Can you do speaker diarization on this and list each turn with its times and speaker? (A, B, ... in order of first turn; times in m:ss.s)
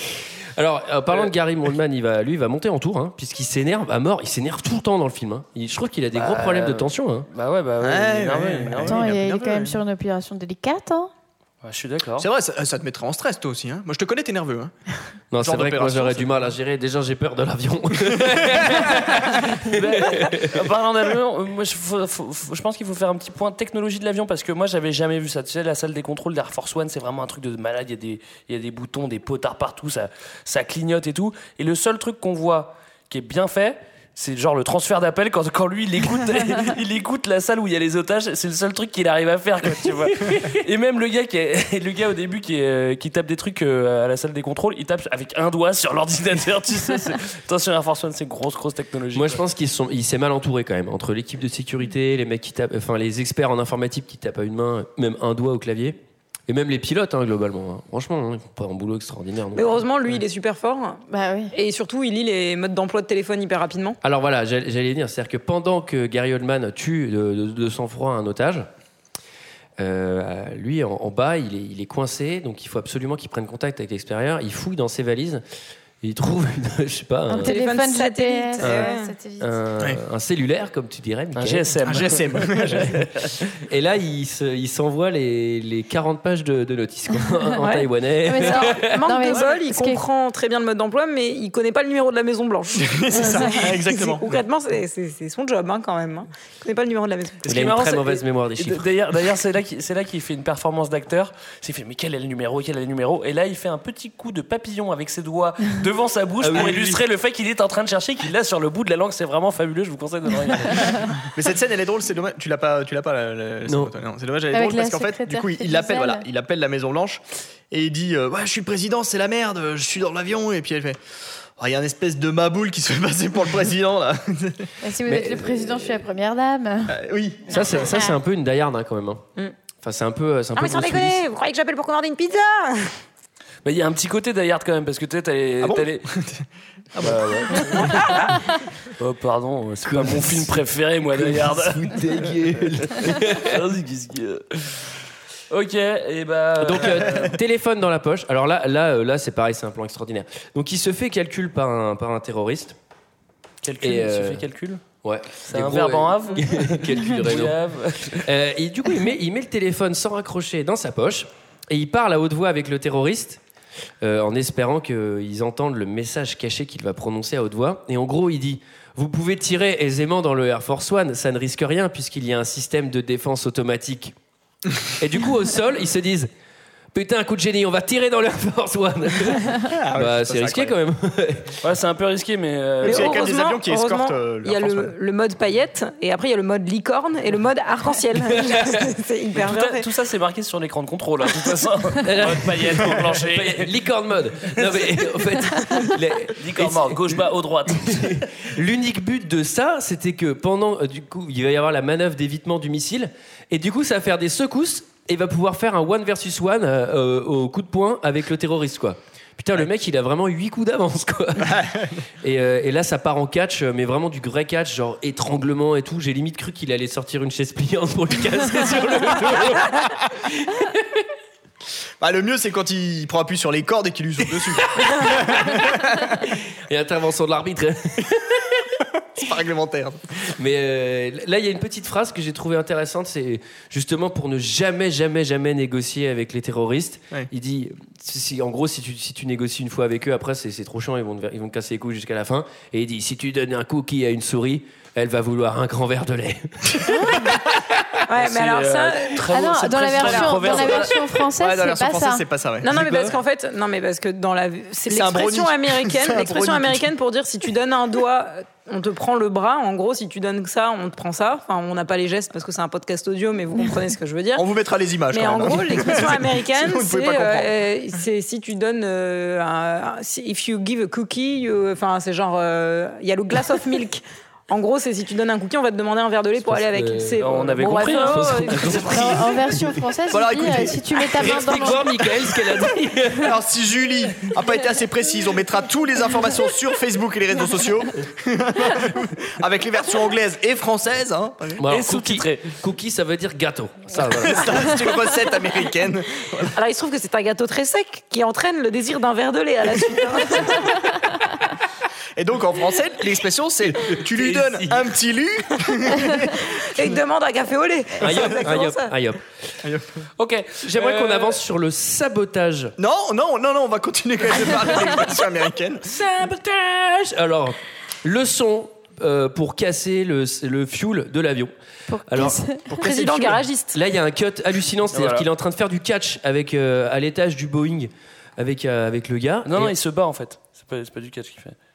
0:00.6-0:07.3 A
0:06.2-0:09.0 B
0:07.8-0:09.8 C
0:08.9-0:11.1 D
0:11.6-0:12.3 B
0:12.2-0:14.7 C
0:15.3-0:20.6 A
0:15.4-0:16.3 C
0:19.6-0:49.4 B
0:49.1-0:59.8 A
0:59.5-1:04.0 E
1:01.1-1:01.5 D
1:04.0-1:08.7 A
1:09.8-1:15.4 A
1:16.0-1:17.6 A
1:17.3-1:19.5 D
1:17.4-1:19.1 E
1:18.6-1:21.7 A
1:21.3-1:22.2 B
1:21.8-1:22.9 C
1:22.8-1:29.0 A
1:28.2-1:30.0 D
1:28.3-1:37.8 E
1:32.8-1:34.4 C
1:37.4-1:38.9 A
1:37.5-1:51.1 B
1:46.4-1:47.0 A
1:51.3-2:01.0 C
1:53.7-1:53.9 A
1:54.5-1:56.2 D
2:01.6-2:04.7 C
2:04.8-2:06.9 D
2:05.0-2:05.9 A
2:06.9-2:07.4 C
2:07.5-2:09.2 A
2:07.8-2:08.1 D
2:09.8-2:11.2 A
2:10.6-2:13.0 E
2:13.6-2:16.1 B
2:15.6-2:17.9 C
2:17.0-2:18.2 B
2:19.0-2:22.0 B
2:19.9-2:23.6 A
2:23.0-2:24.8 B
2:25.5-2:27.4 B
2:26.6-2:32.8 A
2:33.6-2:34.8 B
2:33.8-2:34.4 A
2:35.0-2:37.6 A
2:35.5-2:38.2 B
2:38.2-2:43.4 A
2:44.0-2:54.1 A
2:55.0-2:56.3 A
2:56.9-3:01.6 A
2:59.7-3:00.8 C
3:01.6-3:03.2 B
3:02.8-3:04.9 C
3:02.8-3:09.8 E
3:08.3-3:08.8 A
3:09.4-3:13.7 B
3:12.0-3:17.2 A
3:14.6-3:14.9 B
3:16.4-3:18.3 B
3:17.8-3:31.6 A
3:31.4-3:32.0 C
3:32.2-3:41.0 A
3:42.0-3:46.2 C
3:44.7-3:45.8 A
3:46.7-3:48.6 A
3:49.1-3:50.0 C
3:50.4-4:07.3 A
4:08.1-4:10.8 E
4:08.2-4:10.9 B
4:09.3-4:12.2 D
4:10.6-4:10.8 C
4:11.4-4:13.2 C
4:12.6-4:24.4 E
4:12.7-4:13.2 A
4:14.9-4:16.9 C
4:24.3-4:27.5 C
4:25.1-4:39.2 E
4:36.4-4:39.2 A
4:37.2-4:39.0 B
4:38.8-4:41.8 D
4:40.1-4:40.8 C
4:41.2-4:43.3 A
4:43.2-4:51.6 C
4:51.6-4:54.6 A
4:51.7-4:52.5 B
4:54.1-4:56.5 C
4:56.6-5:00.9 E
5:02.2-5:07.0 C
5:04.0-5:04.7 A
5:06.5-5:08.9 E
5:08.0-5:09.2 A
5:09.6-5:10.0 C
5:10.2-5:11.4 B
5:10.6-5:12.7 A
5:12.8-5:15.8 C
5:15.9-5:21.5 A
5:21.9-5:22.6 D
5:22.1-5:29.7 A
5:22.8-5:23.8 E
5:24.9-5:25.2 B
5:29.4-5:31.6 B